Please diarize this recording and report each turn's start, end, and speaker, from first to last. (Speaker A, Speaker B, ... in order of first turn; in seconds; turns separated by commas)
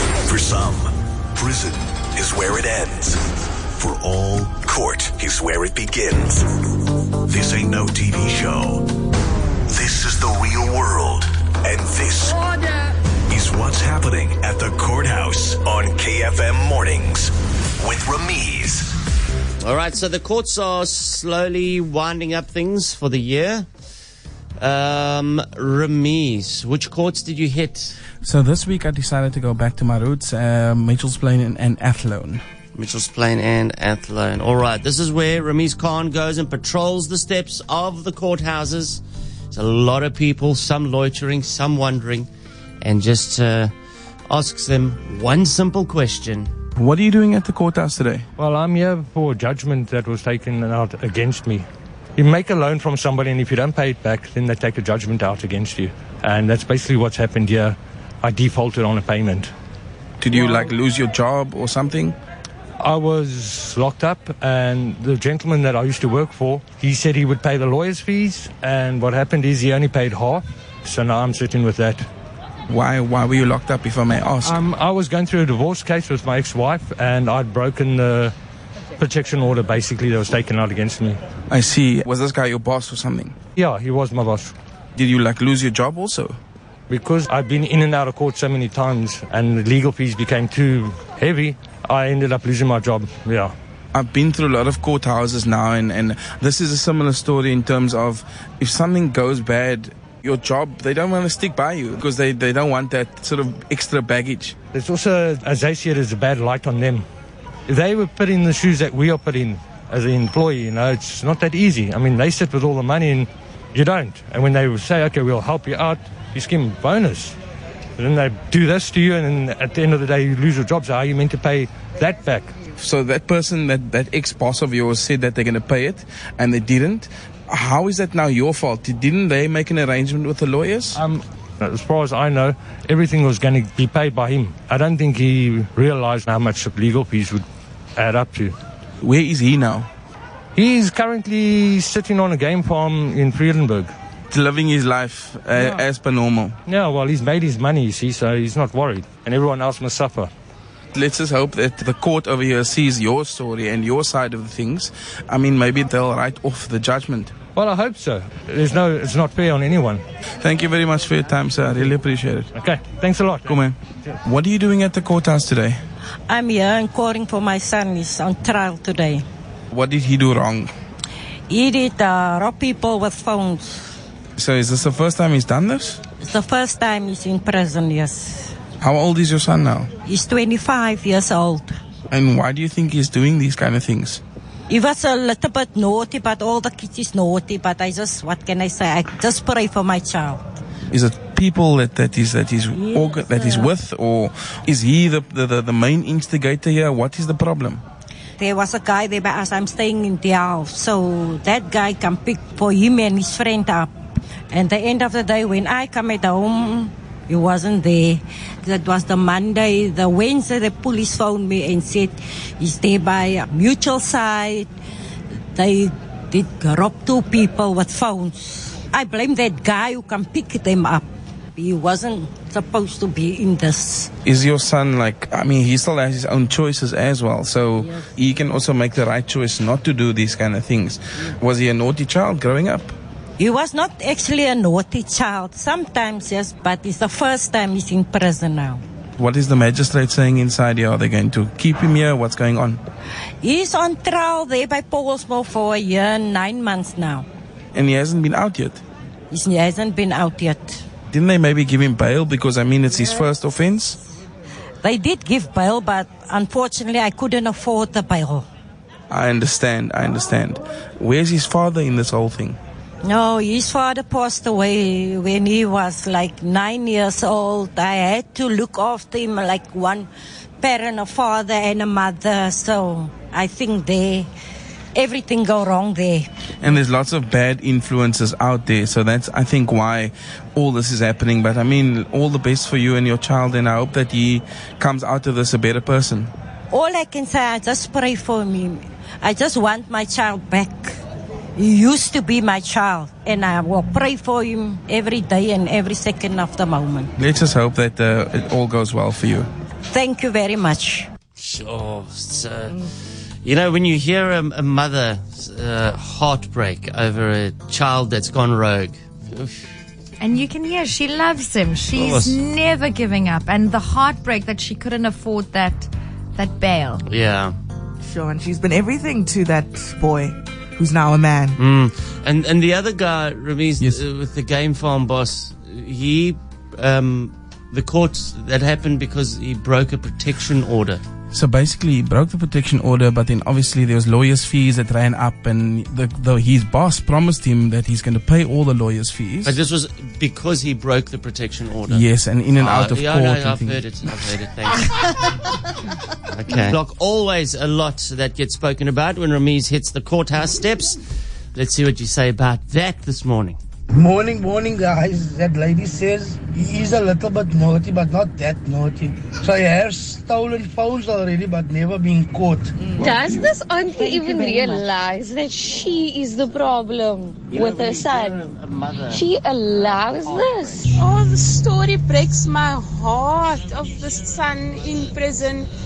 Speaker A: 0.2-6.6, Speaker A: 7.2-8.9, Speaker A: 9.7-12.6, Speaker A: 13.3-19.0, Speaker B: 19.6-23.7, Speaker B: 24.6-28.0, Speaker C: 28.2-32.4, Speaker B: 32.8-42.3, Speaker B: 42.8-43.7, Speaker B: 44.3-46.5, Speaker C: 46.8-48.2, Speaker D: 48.4-51.7, Speaker D: 52.2-59.5, Speaker C: 60.2-62.2, Speaker D: 62.8-72.0, Speaker C: 72.7-74.6, Speaker D: 74.4-78.3, Speaker D: 79.0-81.2, Speaker C: 81.5-83.3, Speaker D: 83.5-84.5, Speaker C: 85.0-86.3, Speaker D: 86.9-93.5, Speaker C: 93.9-104.5, Speaker D: 104.7-107.0, Speaker D: 107.7-117.3, Speaker D: 118.0-122.5, Speaker C: 122.8-131.0, Speaker D: 130.9-137.4, Speaker D: 137.9-138.6, Speaker C: 139.0-139.9, Speaker D: 140.6-143.9, Speaker C: 144.3-146.6, Speaker D: 145.6-145.8, Speaker D: 146.7-150.3, Speaker C: 150.9-157.3, Speaker D: 157.6-160.0, Speaker C: 160.4-162.5, Speaker D: 162.6-163.5, Speaker C: 163.5-165.8, Speaker E: 166.3-169.2, Speaker C: 169.7-170.7, Speaker E: 171.5-173.8, Speaker C: 174.4-176.0, Speaker E: 176.2-178.5, Speaker C: 178.8-179.9, Speaker E: 180.1-181.8, Speaker C: 182.1-184.2, Speaker E: 184.7-190.4, Speaker C: 190.9-197.8, Speaker E: 192.8-193.7, Speaker E: 198.4-203.9, Speaker E: 204.5-214.7, Speaker E: 215.5-221.1, Speaker E: 221.6-224.1, Speaker C: 224.2-232.9, Speaker E: 233.4-238.8, Speaker C: 239.2-242.8, Speaker E: 243.4-247.2, Speaker C: 247.7-248.8, Speaker E: 249.3-250.8, Speaker C: 251.1-254.0, Speaker E: 254.8-258.5, Speaker C: 259.1-262.6, Speaker E: 263.0-270.1, Speaker E: 270.6-274.3, Speaker E: 274.9-276.3, Speaker C: 276.6-286.3, Speaker E: 286.7-291.0, Speaker E: 291.6-297.1, Speaker C: 297.2-299.5, Speaker E: 299.9-301.1, Speaker B: 301.4-302.9, Speaker B: 303.4-309.6, Speaker F: 310.2-317.0, Speaker B: 311.9-312.4, Speaker B: 317.1-317.6, Speaker G: 318.0-321.6, Speaker B: 321.6-331.0, Speaker C: 331.3-339.6, Speaker B: 339.4-342.1, Speaker C: 341.9-343.8, Speaker B: 342.6-345.2, Speaker B: 346.3-351.0, Speaker B: 351.6-353.6, Speaker H: 354.0-362.7, Speaker G: 362.8-363.1, Speaker I: 363.0-368.4, Speaker E: 363.8-364.9, Speaker B: 367.5-370.9, Speaker I: 369.1-370.9, Speaker J: 371.0-375.7